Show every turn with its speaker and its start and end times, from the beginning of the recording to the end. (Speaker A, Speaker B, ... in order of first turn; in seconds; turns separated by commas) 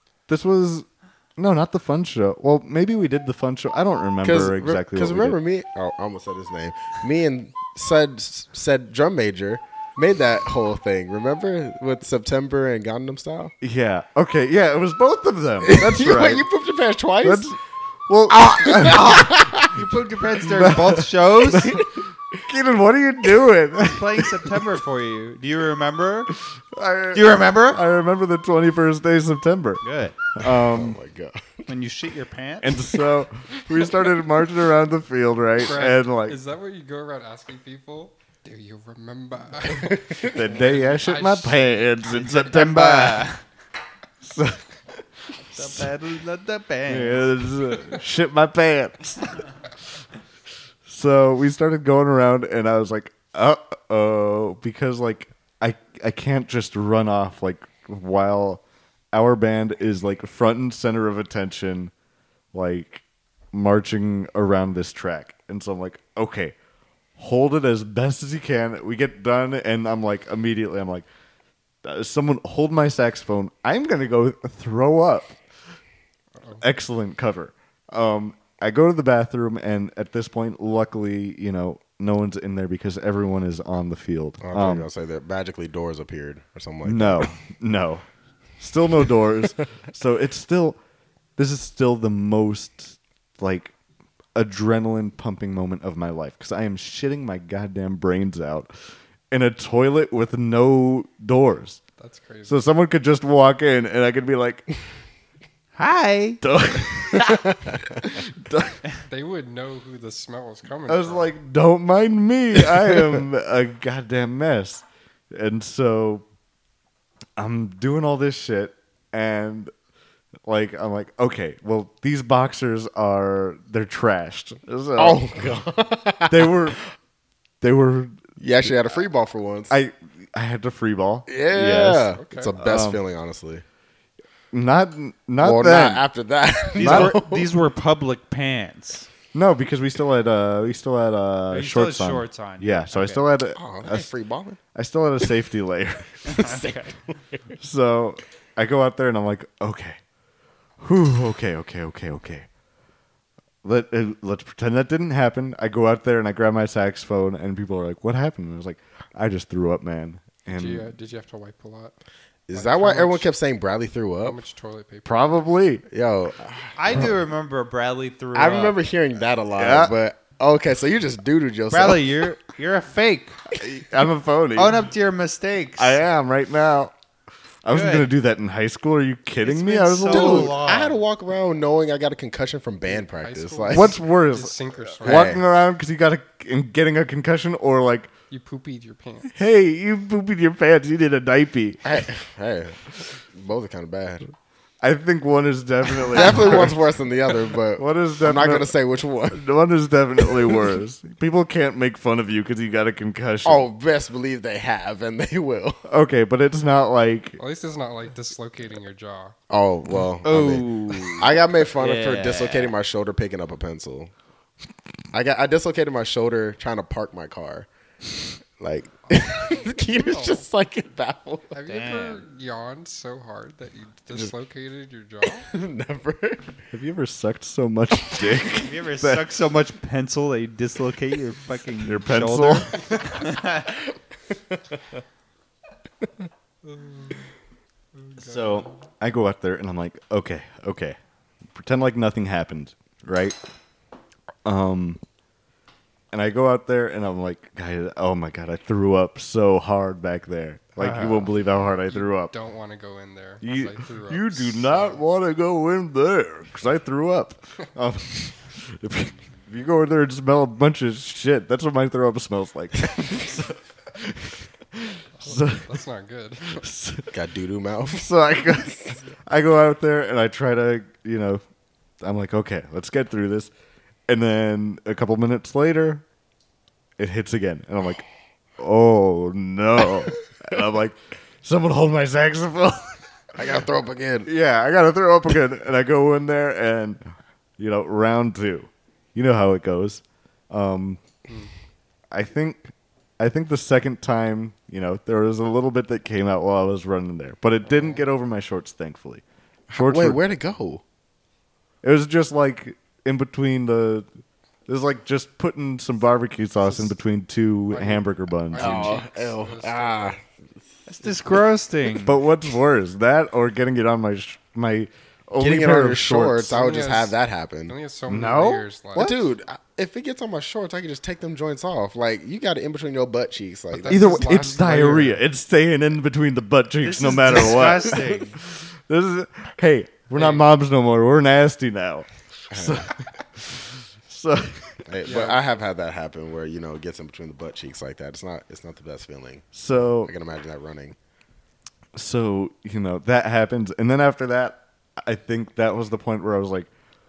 Speaker A: 0.3-0.8, Speaker A: 1.4-5.4, Speaker B: 4.2-13.5, Speaker A: 13.6-16.4, Speaker B: 15.6-17.5, Speaker A: 17.2-19.8, Speaker B: 18.4-19.7, Speaker C: 18.7-21.8, Speaker A: 20.4-21.9, Speaker A: 22.4-24.6, Speaker C: 23.8-26.3, Speaker A: 26.7-29.8, Speaker C: 27.1-27.8, Speaker C: 29.8-30.2, Speaker A: 30.3-31.0, Speaker B: 30.5-31.6, Speaker C: 31.7-33.0, Speaker A: 32.6-36.4, Speaker D: 35.6-41.8, Speaker B: 39.8-40.3, Speaker A: 40.2-43.3, Speaker C: 42.1-43.4, Speaker A: 44.2-45.0, Speaker C: 45.5-47.3, Speaker A: 45.5-45.9, Speaker A: 46.9-49.3, Speaker A: 50.9-58.6, Speaker A: 59.1-61.9, Speaker A: 62.5-66.5, Speaker A: 67.2-71.0, Speaker A: 71.8-75.4, Speaker A: 76.6-84.9, Speaker B: 84.4-87.3, Speaker A: 86.8-88.0, Speaker A: 88.6-90.8, Speaker A: 91.4-93.7, Speaker A: 94.3-98.7, Speaker A: 99.3-101.8, Speaker D: 102.0-102.7, Speaker A: 102.5-104.6, Speaker C: 105.7-106.4, Speaker A: 106.4-108.8, Speaker D: 109.1-111.3, Speaker A: 110.9-116.2, Speaker A: 117.4-119.7, Speaker A: 120.5-125.2, Speaker B: 125.0-126.7, Speaker A: 126.3-126.8, Speaker A: 127.6-128.7, Speaker B: 128.4-129.8, Speaker A: 129.7-133.0, Speaker B: 131.3-133.6, Speaker D: 132.2-132.5, Speaker A: 134.5-136.0, Speaker B: 135.4-137.5, Speaker C: 136.7-139.1, Speaker A: 136.8-137.2, Speaker A: 139.3-144.1, Speaker C: 141.5-143.2, Speaker B: 143.6-144.6, Speaker A: 144.7-146.3, Speaker C: 146.3-146.9, Speaker B: 146.3-147.4, Speaker A: 147.6-150.0, Speaker A: 150.8-152.5, Speaker A: 153.6-160.9, Speaker D: 160.5-161.9, Speaker B: 162.5-164.4, Speaker D: 162.5-163.3, Speaker D: 164.2-165.4, Speaker A: 165.1-165.8, Speaker B: 165.9-167.1, Speaker C: 166.8-168.8, Speaker B: 168.3-172.3, Speaker A: 169.6-169.9, Speaker C: 171.7-173.4, Speaker A: 173.5-174.8, Speaker C: 174.5-176.0, Speaker A: 175.8-176.9, Speaker A: 177.6-180.6, Speaker C: 177.7-178.1, Speaker C: 179.4-181.0, Speaker B: 180.1-183.9, Speaker D: 183.1-185.4, Speaker A: 183.7-188.1, Speaker B: 185.0-185.4, Speaker D: 188.3-189.3, Speaker A: 189.3-192.0, Speaker B: 191.8-194.3, Speaker A: 194.8-196.8, Speaker B: 195.9-199.4, Speaker A: 197.8-198.7, Speaker A: 199.3-203.7, Speaker B: 200.2-200.7, Speaker B: 203.4-205.8, Speaker A: 205.9-207.4, Speaker D: 207.4-209.3, Speaker B: 209.5-214.1, Speaker C: 210.2-212.7, Speaker B: 215.1-217.7, Speaker B: 218.6-221.6, Speaker D: 219.4-220.4, Speaker D: 221.5-225.5, Speaker C: 221.7-222.2, Speaker B: 225.5-226.6, Speaker A: 226.7-229.3, Speaker C: 228.6-233.7, Speaker A: 231.8-232.9, Speaker D: 236.7-237.2, Speaker D: 238.0-238.6, Speaker A: 238.2-241.0, Speaker A: 241.5-243.3, Speaker A: 244.4-245.0, Speaker A: 246.1-252.3, Speaker C: 250.8-251.3, Speaker D: 251.9-255.0, Speaker A: 253.4-265.7, Speaker D: 265.2-266.6, Speaker A: 266.5-267.1, Speaker B: 267.1-268.1, Speaker A: 267.9-271.4, Speaker A: 272.0-273.5, Speaker A: 274.1-276.0, Speaker A: 277.0-278.0, Speaker A: 278.6-283.0, Speaker B: 283.4-284.3, Speaker A: 284.2-287.0, Speaker A: 287.6-291.0, Speaker A: 292.1-299.2, Speaker B: 299.7-300.8, Speaker A: 299.7-300.2, Speaker A: 301.8-304.1, Speaker A: 304.7-309.0, Speaker D: 306.6-306.9, Speaker D: 307.7-310.2, Speaker B: 308.5-310.2, Speaker C: 310.9-312.2, Speaker A: 311.9-316.6, Speaker B: 315.4-317.8, Speaker D: 316.5-317.1, Speaker D: 317.7-319.1, Speaker A: 318.1-319.3, Speaker B: 318.9-324.3, Speaker D: 323.7-325.2, Speaker A: 323.9-334.8, Speaker C: 326.8-328.4, Speaker B: 332.5-332.9, Speaker B: 334.9-339.5, Speaker D: 335.0-335.4, Speaker A: 339.5-340.1, Speaker B: 340.0-340.9, Speaker A: 341.9-346.7